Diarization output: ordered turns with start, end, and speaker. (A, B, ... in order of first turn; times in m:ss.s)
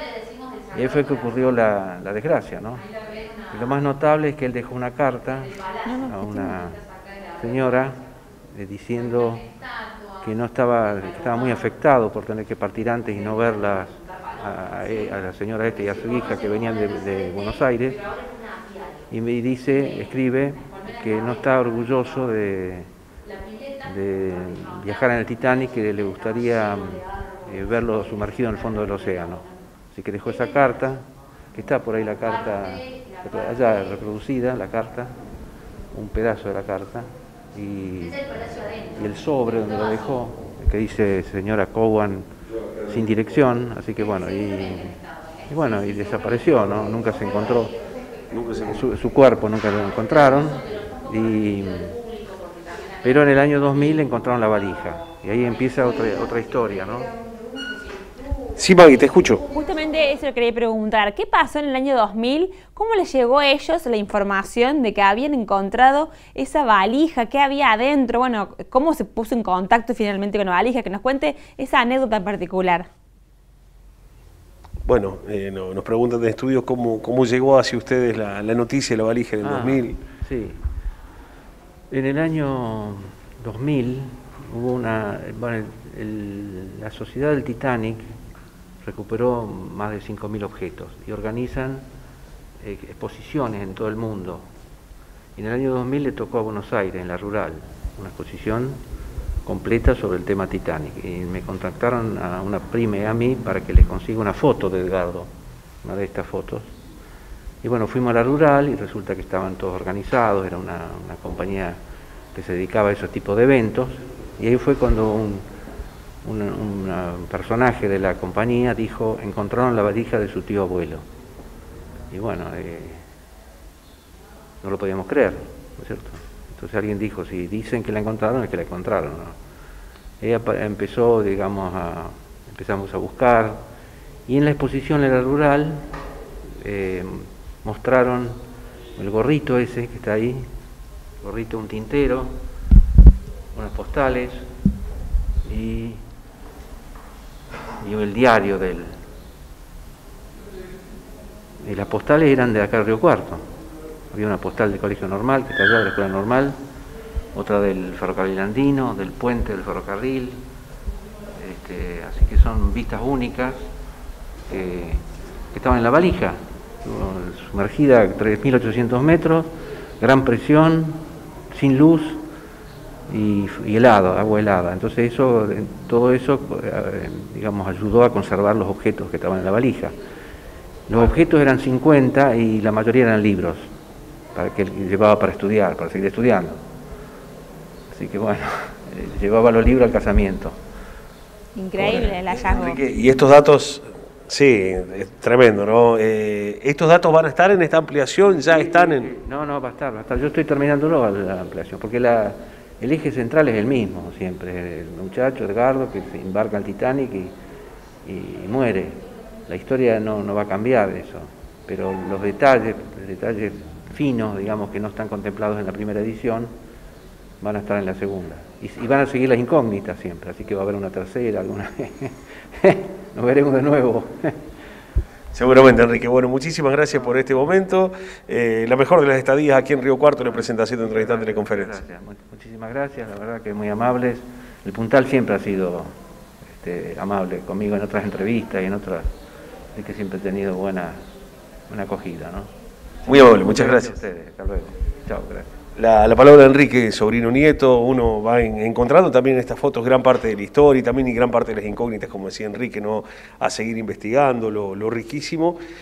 0:00.7-0:02.8 A
0:03.5-0:06.8 A
0:05.8-0:06.5 B
0:07.4-0:08.0 A
0:08.5-0:09.5 A
0:10.2-0:18.0 A
0:19.1-0:22.9 A
0:23.8-0:35.2 A
0:35.9-0:38.2 A
0:38.9-0:42.3 A
0:42.8-0:47.8 A
0:48.3-0:48.8 C
0:48.6-0:52.0 A
0:53.0-0:57.1 A
0:58.6-0:59.4 C
0:59.5-1:12.9 B
1:14.8-1:20.0 C
1:19.4-1:20.6 A
1:21.9-1:28.1 A
1:28.8-1:31.8 A
1:32.6-1:34.5 A
1:35.4-1:38.8 A
1:39.4-1:45.3 A
1:45.8-1:46.7 A
1:47.6-1:51.8 A
1:52.3-1:55.4 A
1:56.2-2:01.0 A
2:02.1-2:03.0 A
2:04.6-2:09.4 A
2:10.2-2:13.6 A
2:14.2-2:15.9 A
2:16.5-2:18.4 A
2:19.0-2:20.5 A
2:21.2-2:22.4 A
2:23.5-2:24.5 A
2:25.4-2:26.0 A
2:27.8-2:29.0 A
2:31.6-2:33.4 A
2:34.1-2:36.6 A
2:37.3-2:40.4 A
2:41.3-2:43.7 A
2:44.5-2:52.2 A
2:53.1-2:59.9 A
3:00.9-3:03.7 A
3:04.3-3:06.6 A
3:07.9-3:10.6 A
3:11.5-3:12.8 B
3:11.8-3:19.1 C
3:18.4-3:27.3 A
3:28.0-3:36.5 A
3:37.4-3:44.4 A
3:45.3-3:51.8 C
3:50.4-3:59.1 A
3:59.7-4:01.0 A
4:01.7-4:02.5 A
4:03.0-4:05.5 A
4:03.1-4:04.0 C
4:05.8-4:15.6 C